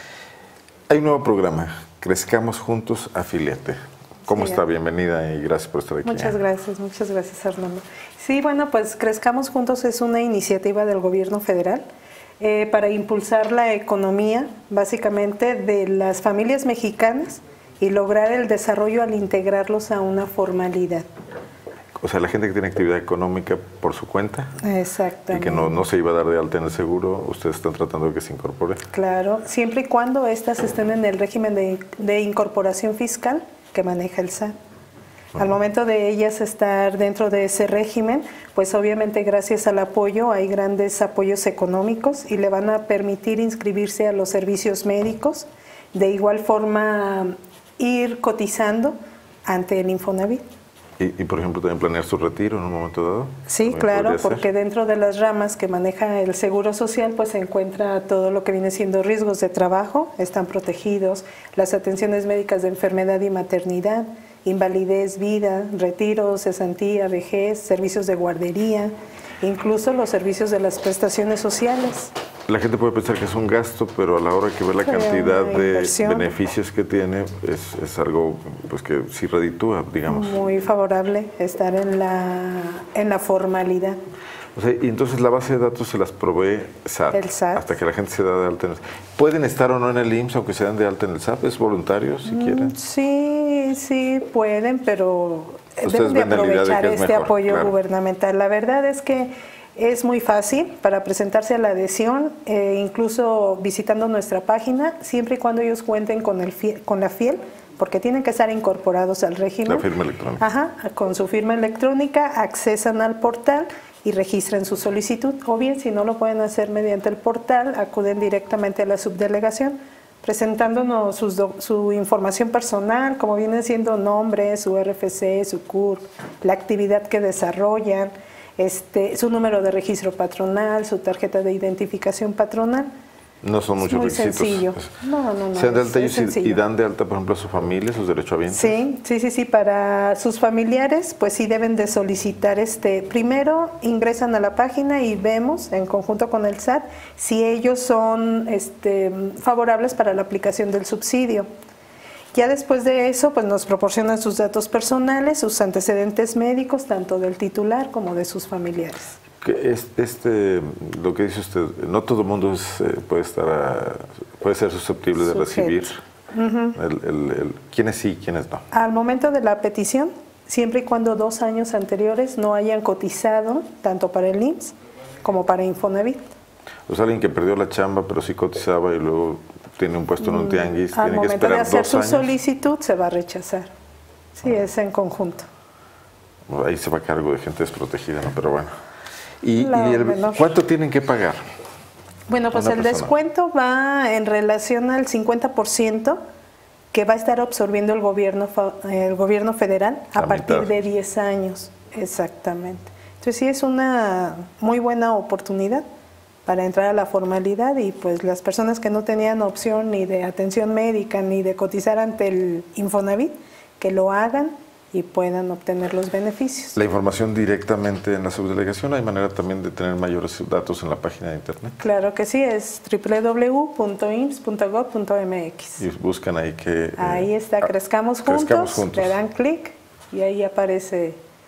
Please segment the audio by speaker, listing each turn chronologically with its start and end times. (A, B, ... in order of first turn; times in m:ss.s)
0:00.9-0:06.4 A
0:04.3-0:04.6 B
0:06.0-0:11.9 B
0:12.4-0:21.1 B
0:22.0-0:24.6 A
0:24.6-0:25.8 B
0:25.3-0:28.8 A
0:28.9-0:34.5 B
0:35.4-0:50.4 B
0:51.0-0:54.5 A
0:53.5-1:12.1 B
1:12.5-1:20.5 A
1:14.8-1:16.3 B
1:20.1-1:24.0 B
1:24.6-1:32.8 A
1:27.1-1:27.7 B
1:32.3-1:49.9 B
1:35.8-1:37.7 A
1:49.7-1:50.4 A
1:50.4-2:12.9 B
2:13.4-2:14.9 A
2:13.8-2:16.6 B
2:15.5-2:18.8 A
2:18.5-2:31.5 B
2:32.3-2:39.2 B
2:39.4-2:46.0 A
2:45.2-2:46.8 B
2:46.8-2:48.6 A
2:48.7-2:56.3 B
2:56.9-3:02.3 A
3:00.2-3:03.7 B
3:04.4-3:05.5 B
3:06.5-3:08.8 A
3:09.4-3:11.4 A
3:09.6-3:10.5 B
3:12.3-3:16.2 B
3:12.5-3:13.1 A
3:16.9-3:25.8 B
3:20.2-3:20.7 A
3:26.5-3:36.8 B
3:36.8-3:41.8 A
3:41.8-3:45.8 B
3:45.8-3:47.7 A
3:47.0-3:51.2 B
3:48.2-3:49.2 A